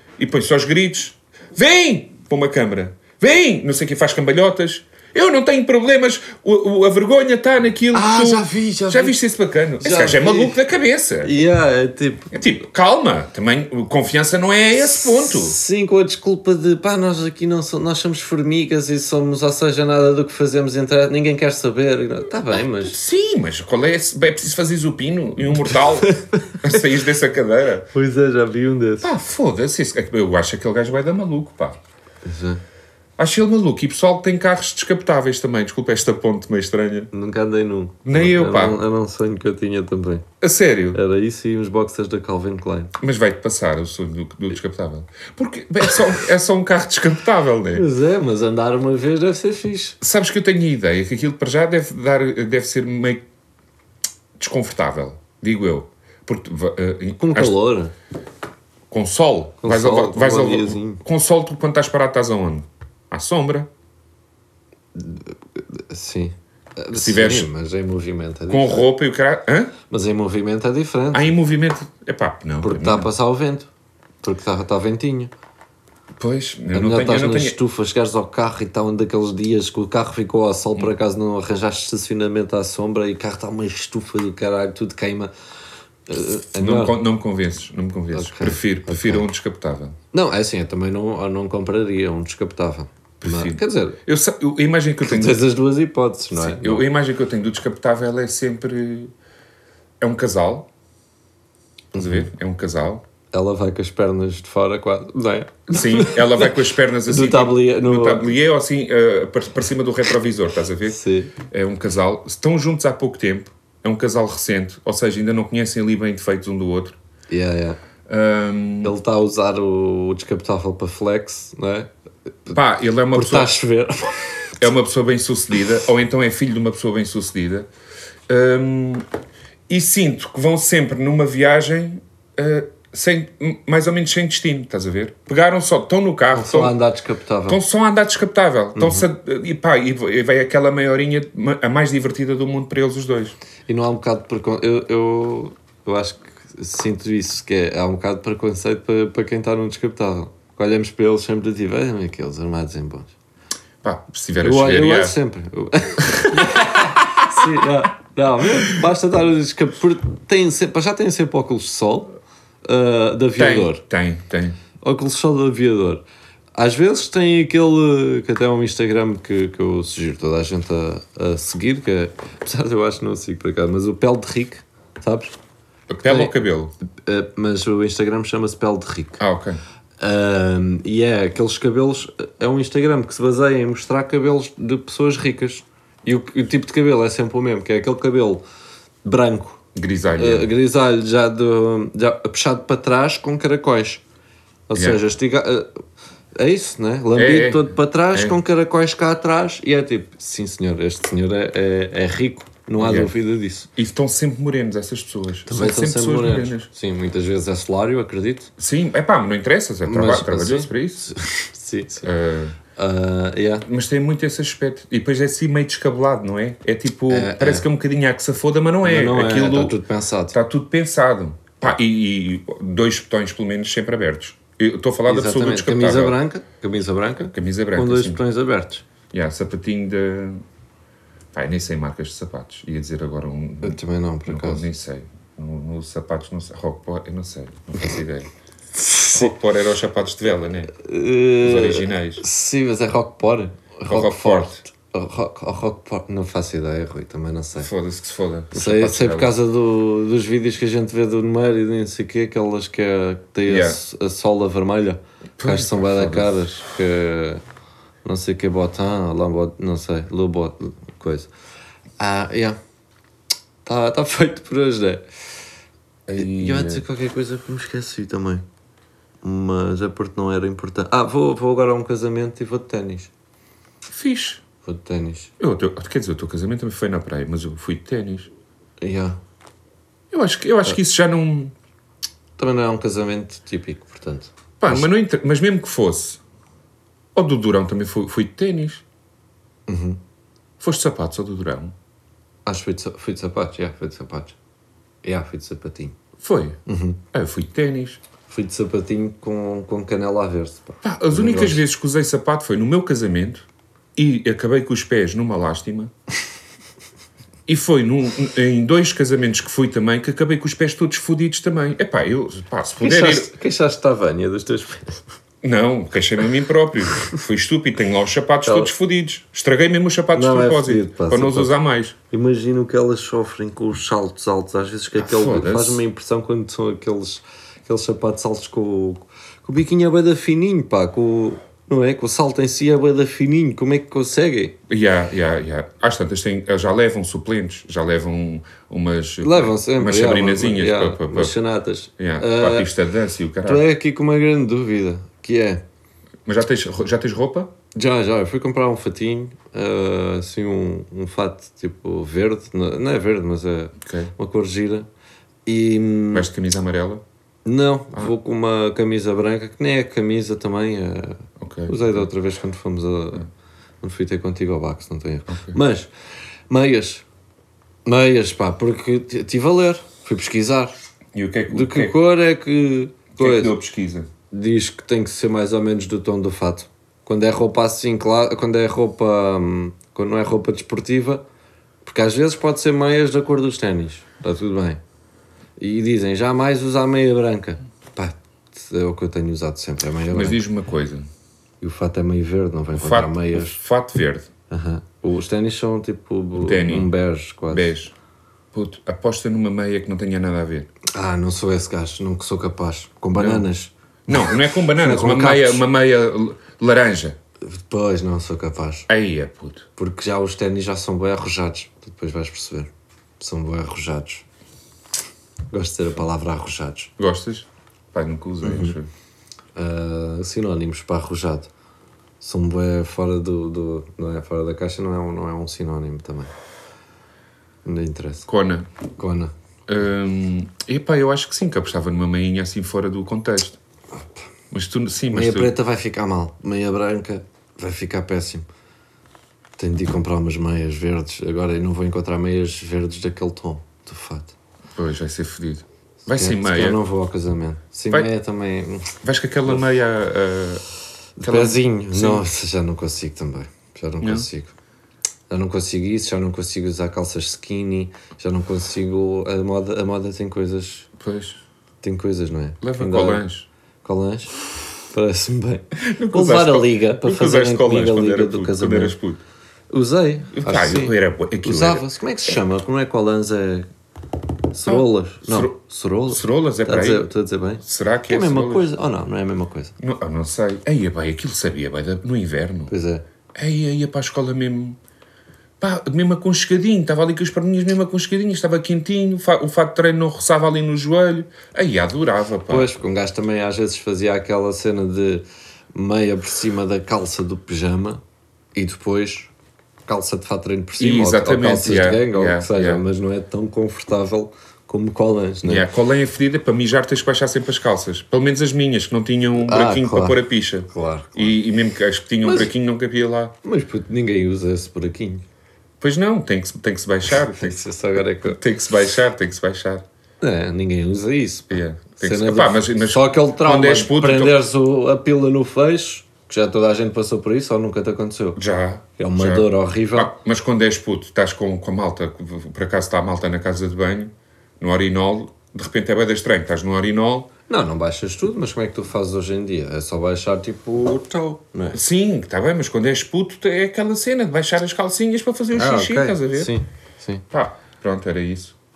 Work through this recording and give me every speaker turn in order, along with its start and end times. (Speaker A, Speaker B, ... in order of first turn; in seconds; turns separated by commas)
Speaker A: 0.2-11.3, Speaker B: 7.9-9.2, Speaker B: 9.8-10.6, Speaker B: 11.2-12.3, Speaker A: 12.3-15.6, Speaker B: 14.9-23.0, Speaker A: 22.8-27.9, Speaker B: 25.9-26.6, Speaker B: 27.9-29.1, Speaker A: 29.0-31.8, Speaker B: 32.2-32.6, Speaker A: 33.2-37.1, Speaker B: 37.1-40.3, Speaker A: 38.0-38.8, Speaker A: 40.4-41.0, Speaker B: 40.9-42.9, Speaker A: 43.0-47.9, Speaker B: 47.7-50.0, Speaker A: 50.0-53.2, Speaker A: 54.4-57.6, Speaker B: 57.2-57.9, Speaker A: 58.9-63.7, Speaker B: 59.6-61.0, Speaker B: 65.0-68.9, Speaker A: 66.9-67.5, Speaker A: 68.5-69.7, Speaker B: 69.9-71.3, Speaker A: 71.1-73.1, Speaker B: 72.6-73.7, Speaker B: 74.2-75.3, Speaker A: 76.2-77.6, Speaker B: 76.7-85.3, Speaker B: 86.1-87.0, Speaker A: 86.6-90.0, Speaker B: 88.1-89.3, Speaker B: 90.1-94.0, Speaker A: 93.2-95.4, Speaker B: 95.0-96.8, Speaker A: 96.3-99.1, Speaker A: 100.0-100.7, Speaker B: 101.9-102.3, Speaker A: 102.0-103.0, Speaker B: 103.3-108.3, Speaker A: 105.7-117.0, Speaker B: 110.9-111.3, Speaker B: 117.3-117.8, Speaker A: 118.1-118.9, Speaker B: 118.8-121.9, Speaker A: 122.5-123.5, Speaker B: 123.1-124.6, Speaker A: 124.6-127.7, Speaker A: 128.3-129.1, Speaker A: 129.7-136.8, Speaker B: 136.3-137.6, Speaker A: 137.5-143.4, Speaker B: 138.8-139.1, Speaker B: 143.7-153.2, Speaker A: 153.8-155.2, Speaker B: 154.4-163.8, Speaker A: 156.1-157.7, Speaker A: 163.4-164.6, Speaker B: 164.8-166.0, Speaker B: 166.6-175.3, Speaker A: 175.9-176.7, Speaker B: 176.1-176.3, Speaker B: 177.1-179.2, Speaker A: 179.2-179.6, Speaker B: 180.0-188.4, Speaker B: 189.1-189.6, Speaker A: 189.8-190.5, Speaker B: 190.2-194.0, Speaker B: 194.7-195.7, Speaker A: 194.7-195.0, Speaker B: 196.4-203.7, Speaker A: 197.1-198.4, Speaker A: 202.8-203.1, Speaker A: 203.8-206.7, Speaker B: 205.5-208.5, Speaker A: 208.6-211.1, Speaker B: 209.8-212.1, Speaker A: 212.0-212.6, Speaker B: 212.8-213.7, Speaker A: 213.7-219.8, Speaker B: 217.1-217.7, Speaker B: 218.8-220.4, Speaker A: 220.3-226.2, Speaker B: 225.1-228.8, Speaker A: 227.2-228.2, Speaker A: 229.1-230.4, Speaker A: 231.3-238.3, Speaker B: 233.6-234.7, Speaker B: 238.8-239.3, Speaker A: 239.1-240.7, Speaker B: 240.7-247.7, Speaker A: 241.4-242.2, Speaker A: 243.9-244.6, Speaker A: 247.6-249.3, Speaker B: 248.5-257.4, Speaker A: 253.5-253.8, Speaker A: 255.4-256.3, Speaker B: 258.1-261.3, Speaker B: 262.0-262.6, Speaker B: 263.6-265.1, Speaker A: 266.1-266.9, Speaker B: 266.2-268.4, Speaker B: 269.2-273.1, Speaker A: 273.9-274.4, Speaker B: 274.6-275.3, Speaker A: 275.4-278.3, Speaker B: 278.8-279.2, Speaker A: 280.1-281.5, Speaker B: 282.4-284.9, Speaker A: 284.6-286.2, Speaker A: 287.1-288.8, Speaker B: 289.7-290.0, Speaker A: 290.6-291.7, Speaker B: 292.5-294.4, Speaker B: 295.0-296.0, Speaker A: 296.2-296.6, Speaker B: 296.7-297.0, Speaker A: 297.1-298.0, Speaker B: 298.3-301.6, Speaker A: 300.8-305.9, Speaker A: 307.5-313.3, Speaker B: 312.8-315.0, Speaker A: 315.4-322.0, Speaker B: 318.4-318.7, Speaker B: 320.1-321.5, Speaker B: 322.1-334.6, Speaker A: 325.0-325.8, Speaker A: 334.7-341.4, Speaker B: 339.2-342.7, Speaker A: 342.0-343.6, Speaker B: 343.4-345.6, Speaker A: 346.3-347.5, Speaker B: 347.8-354.9, Speaker A: 353.8-354.1, Speaker B: 355.5-356.3, Speaker A: 356.1-357.0, Speaker B: 357.4-363.3, Speaker A: 361.4-362.1, Speaker B: 363.8-365.9, Speaker A: 365.3-365.6, Speaker B: 366.5-367.1, Speaker B: 367.9-370.8, Speaker A: 371.1-372.0, Speaker B: 371.5-373.5, Speaker A: 373.2-374.1, Speaker B: 374.3-381.2, Speaker B: 381.9-384.8, Speaker B: 385.6-390.4, Speaker A: 390.1-391.1, Speaker B: 391.6-393.6, Speaker A: 392.8-394.3, Speaker B: 394.5-397.7, Speaker A: 396.4-396.9, Speaker A: 397.5-397.9, Speaker A: 398.5-400.7, Speaker B: 400.9-405.6, Speaker A: 403.2-403.5, Speaker A: 404.1-407.2, Speaker B: 407.4-408.9, Speaker A: 408.9-409.7, Speaker B: 409.8-414.2, Speaker B: 415.5-416.9, Speaker A: 417.0-418.9, Speaker B: 418.4-418.8, Speaker B: 419.6-421.5, Speaker B: 422.2-426.3, Speaker B: 427.6-428.3, Speaker A: 428.3-428.7, Speaker B: 429.0-429.3, Speaker A: 429.7-433.6, Speaker A: 434.5-435.5, Speaker B: 435.1-438.4, Speaker B: 439.6-444.4, Speaker A: 444.8-446.8, Speaker B: 446.1-449.6, Speaker A: 449.0-450.6, Speaker B: 451.2-454.5, Speaker A: 451.2-452.2, Speaker A: 454.0-454.3, Speaker B: 455.3-460.9, Speaker A: 461.0-461.4, Speaker B: 461.8-463.2, Speaker A: 462.6-463.5, Speaker B: 463.8-469.0, Speaker A: 465.8-469.2, Speaker B: 469.7-473.7, Speaker A: 470.3-472.4, Speaker B: 474.5-479.7, Speaker A: 474.7-475.5, Speaker A: 476.1-477.1, Speaker A: 477.6-478.7, Speaker A: 479.8-482.7, Speaker B: 482.7-483.0, Speaker A: 483.4-484.8, Speaker A: 485.6-492.7, Speaker B: 492.5-498.0, Speaker B: 498.6-499.3, Speaker B: 499.9-505.6, Speaker A: 500.8-502.8, Speaker A: 505.4-513.3, Speaker B: 509.4-511.4, Speaker B: 512.2-512.5, Speaker B: 513.4-515.2, Speaker A: 515.8-517.6, Speaker B: 517.3-518.4, Speaker A: 518.2-519.9, Speaker B: 520.2-528.4, Speaker A: 521.5-524.3, Speaker A: 528.4-537.3, Speaker B: 529.0-530.1, Speaker B: 537.5-541.8, Speaker A: 541.7-546.5, Speaker B: 545.5-547.2, Speaker A: 547.3-548.5